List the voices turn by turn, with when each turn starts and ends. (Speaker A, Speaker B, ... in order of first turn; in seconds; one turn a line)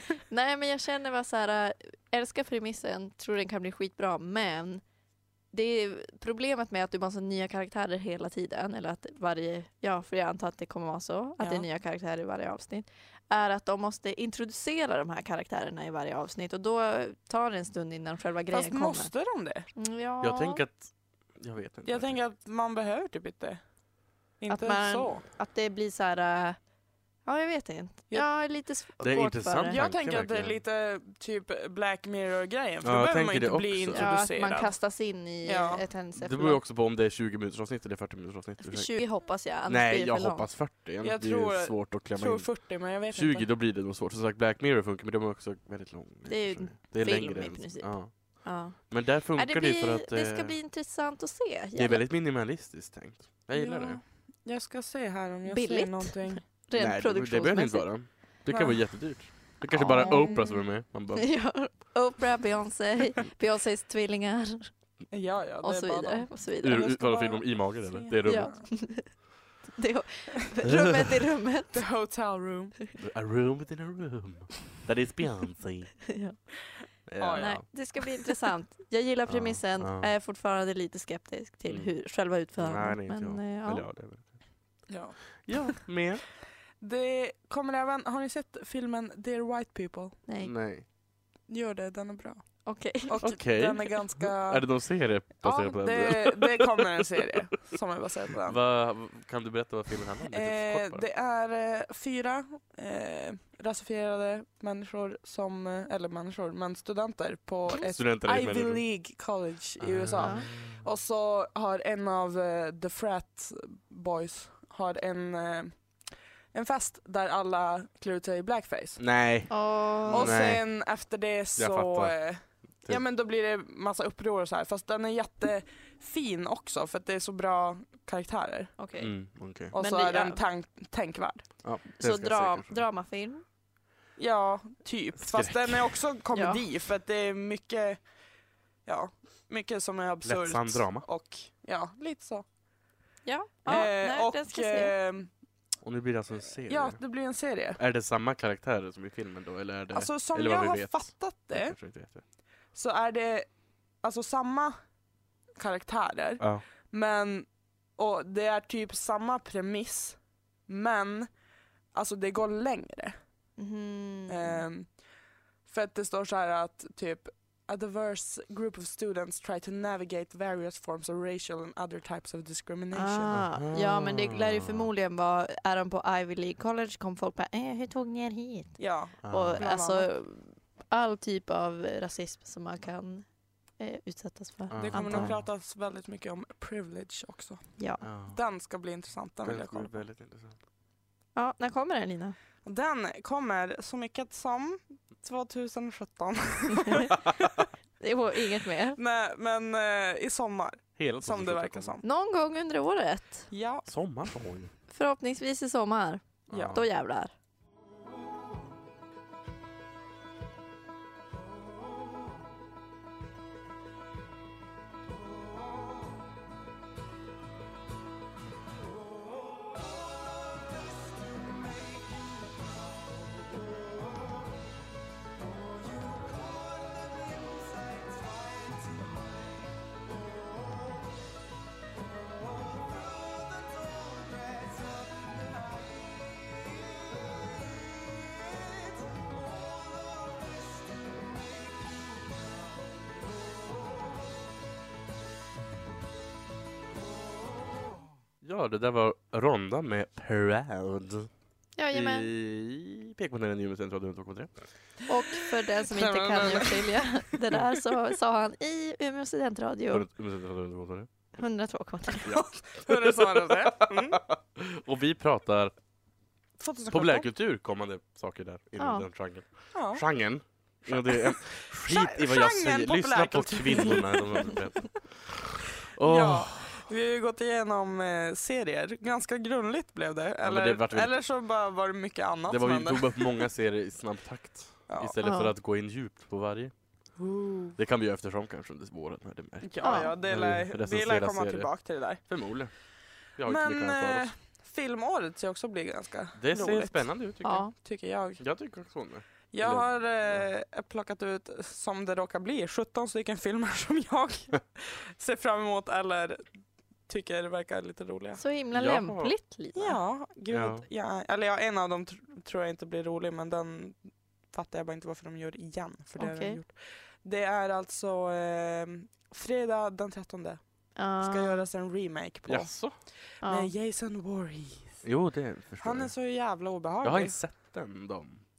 Speaker A: 0.3-4.8
Speaker A: 5.5-19.1
Speaker B: 11.4-11.7
Speaker B: 18.5-19.7
Speaker A: 19.8-20.6
Speaker C: 20.2-22.2
Speaker B: 21.9-23.6
Speaker B: 24.4-25.2
Speaker A: 24.5-26.6
Speaker A: 27.2-29.8
Speaker C: 29.0-30.6
Speaker B: 29.7-34.9
Speaker C: 32.8-34.1
Speaker A: 33.9-36.6
Speaker B: 35.4-35.9
Speaker C: 36.2-39.1
Speaker A: 38.6-40.5
Speaker C: 39.7-48.1
Speaker B: 41.0-43.5
Speaker A: 46.3-52.1
Speaker C: 48.7-50.6
Speaker C: 51.8-54.0
Speaker B: 53.6-56.5
Speaker A: 55.5-57.9
Speaker C: 56.8-61.4
Speaker B: 58.5-59.3
Speaker A: 59.7-60.6
Speaker B: 59.9-60.6
Speaker A: 61.1-64.7
Speaker B: 65.1-66.3
Speaker A: 65.6-67.4
Speaker C: 66.6-68.7
Speaker B: 67.6-68.7
Speaker A: 68.2-71.9
Speaker C: 70.7-71.0
Speaker B: 71.7-72.8
Speaker C: 73.0-76.1
Speaker A: 76.1-76.5
Speaker C: 77.1-77.7
Speaker B: 77.2-77.6
Speaker A: 77.3-83.9
Speaker C: 79.3-80.1
Speaker C: 81.7-84.3
Speaker B: 84.9-85.4
Speaker C: 85.4-86.3
Speaker B: 86.8-90.2
Speaker A: 90.3-90.5
Speaker C: 90.4-90.8
Speaker B: 91.5-98.6
Speaker A: 92.7-93.2
Speaker C: 93.2-96.7
Speaker C: 98.5-101.1
Speaker B: 100.3-115.8
Speaker C: 107.8-108.8
Speaker C: 109.8-110.8
Speaker A: 110.2-110.5
Speaker B: 116.5-119.0
Speaker C: 119.0-120.7
Speaker A: 119.5-120.4
Speaker B: 120.1-128.8
Speaker C: 121.6-122.2
Speaker A: 128.8-129.1
Speaker C: 129.0-129.7
Speaker B: 129.7-131.5
Speaker A: 129.7-130.4
Speaker C: 131.6-132.8
Speaker A: 132.0-133.4
Speaker B: 134.2-138.1
Speaker C: 135.2-135.9
Speaker A: 136.3-136.6
Speaker B: 138.9-142.4
Speaker C: 140.2-141.1
Speaker A: 143.2-144.9
Speaker B: 143.7-145.3
Speaker C: 145.8-147.0
Speaker B: 146.7-147.8
Speaker C: 147.8-152.2
Speaker B: 149.9-151.8
Speaker B: 152.7-153.5
Speaker B: 154.0-154.8
Speaker B: 155.6-161.3
Speaker B: 161.9-163.2
Speaker A: 163.6-164.6
Speaker B: 164.3-165.0
Speaker B: 165.7-173.4
Speaker A: 172.9-183.3
Speaker C: 173.3-174.9
Speaker B: 178.8-180.1
Speaker C: 179.2-179.6
Speaker A: 183.8-185.3
Speaker C: 184.7-185.4
Speaker B: 184.8-190.0
Speaker A: 187.8-188.0
Speaker C: 188.0-188.4
Speaker C: 189.4-190.6
Speaker A: 191.3-192.4
Speaker B: 192.6-197.7
Speaker A: 198.0-199.0
Speaker B: 199.0-202.0
Speaker C: 201.0-202.0
Speaker A: 202.0-203.5
Speaker B: 203.5-203.9
Speaker C: 203.9-204.7
Speaker A: 204.9-207.3
Speaker C: 206.5-206.8
Speaker B: 206.5-206.8
Speaker C: 248.4-251.3
Speaker A: 251.8-252.3
Speaker C: 251.9-254.5
Speaker A: 255.1-260.1
Speaker B: 255.9-257.0
Speaker C: 259.9-261.1
Speaker A: 261.4-262.4
Speaker C: 262.2-265.7
Speaker B: 262.3-264.2
Speaker B: 266.6-267.3
Speaker C: 266.9-276.9
Speaker A: 268.8-269.1
Speaker B: 269.7-270.1
Speaker B: 270.9-274.6
Speaker B: 276.0-283.5
Speaker C: 280.4-281.1
Speaker C: 282.5-286.7
Speaker B: 284.9-285.1
Speaker A: 285.2-285.5
Speaker B: 287.2-287.8
Speaker C: 287.8-292.7
Speaker B: 289.6-292.2
Speaker A: 289.8-290.1
Speaker C: 293.3-294.3
Speaker B: 293.4-298.4
Speaker C: 296.4-297.7
Speaker A: 297.4-297.7
Speaker C: 298.4-300.5
Speaker B: 299.5-306.4
Speaker B: 307.1-308.4
Speaker A: 308.4-310.0
Speaker C: 308.7-309.4
Speaker B: 309.8-314.0
Speaker C: 310.5-310.8
Speaker B: 314.5-320.6
Speaker A: 316.2-316.6
Speaker A: 321.0-321.6
Speaker B: 321.2-325.0
Speaker C: 322.5-323.0
Speaker A: 323.4-323.7
Speaker C: 325.0-326.1
Speaker B: 325.8-327.4
Speaker C: 327.0-328.4